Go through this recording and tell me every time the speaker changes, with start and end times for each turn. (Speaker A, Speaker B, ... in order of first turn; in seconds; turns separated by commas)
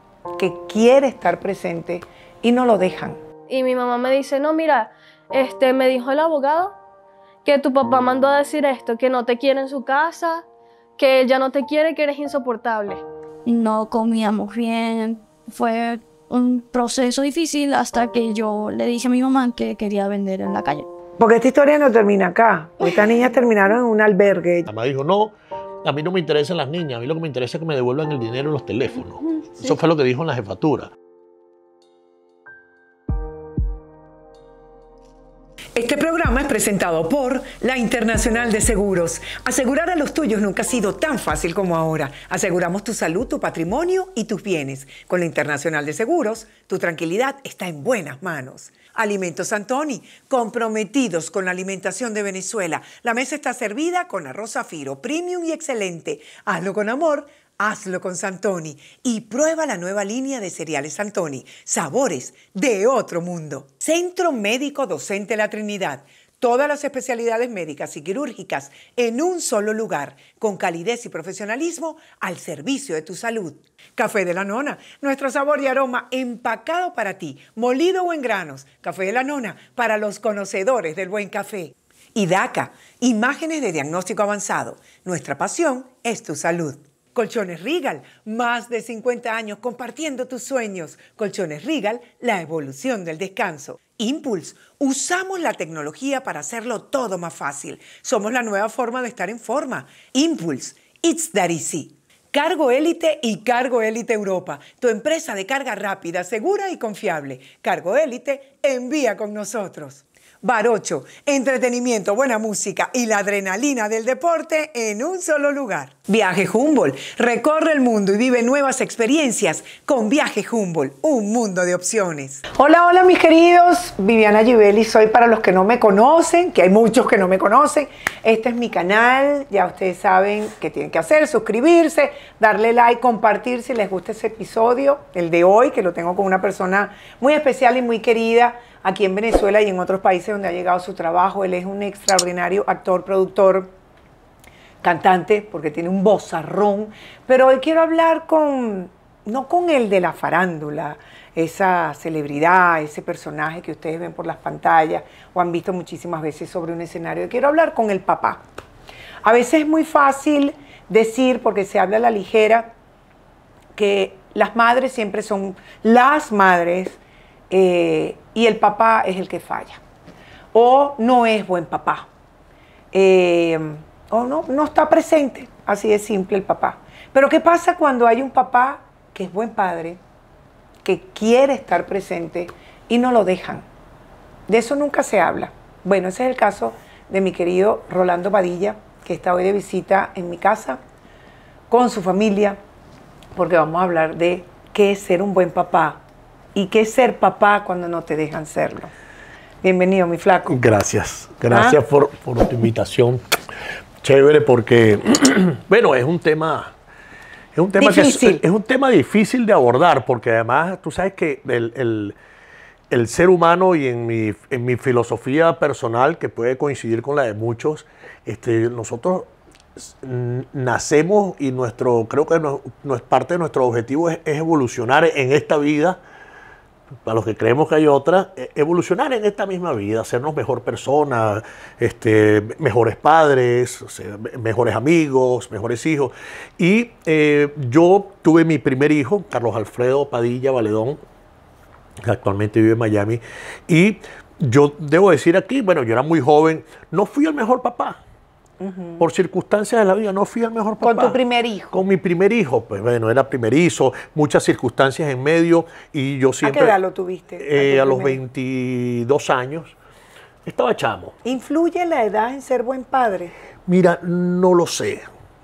Speaker A: 0.4-3.2, Speaker B: 3.5-6.8, Speaker B: 7.5-10.4, Speaker B: 11.0-13.0, Speaker C: 13.4-20.9, Speaker A: 21.2-24.7, Speaker D: 24.7-30.9, Speaker A: 35.8-143.7, Speaker A: 144.8-158.5, Speaker A: 159.2-162.8, Speaker A: 163.8-167.0, Speaker A: 167.5-169.8, Speaker A: 170.5-172.1, Speaker A: 172.9-180.0, Speaker A: 180.8-183.7, Speaker A: 184.5-190.8, Speaker A: 191.7-192.6, Speaker A: 193.3-196.0, Speaker A: 196.6-198.9, Speaker A: 199.6-200.6, Speaker D: 200.5-203.2, Speaker A: 201.5-201.8, Speaker D: 204.0-206.7, Speaker D: 207.6-212.2, Speaker A: 207.8-208.4, Speaker D: 212.9-226.0, Speaker D: 227.1-241.0, Speaker D: 242.0-248.0, Speaker A: 248.6-249.0, Speaker D: 249.0-251.2, Speaker A: 250.8-251.8, Speaker D: 251.7-256.8, Speaker A: 256.4-258.2, Speaker D: 257.4-259.8, Speaker D: 260.4-261.2, Speaker A: 261.2-263.3, Speaker D: 263.7-265.1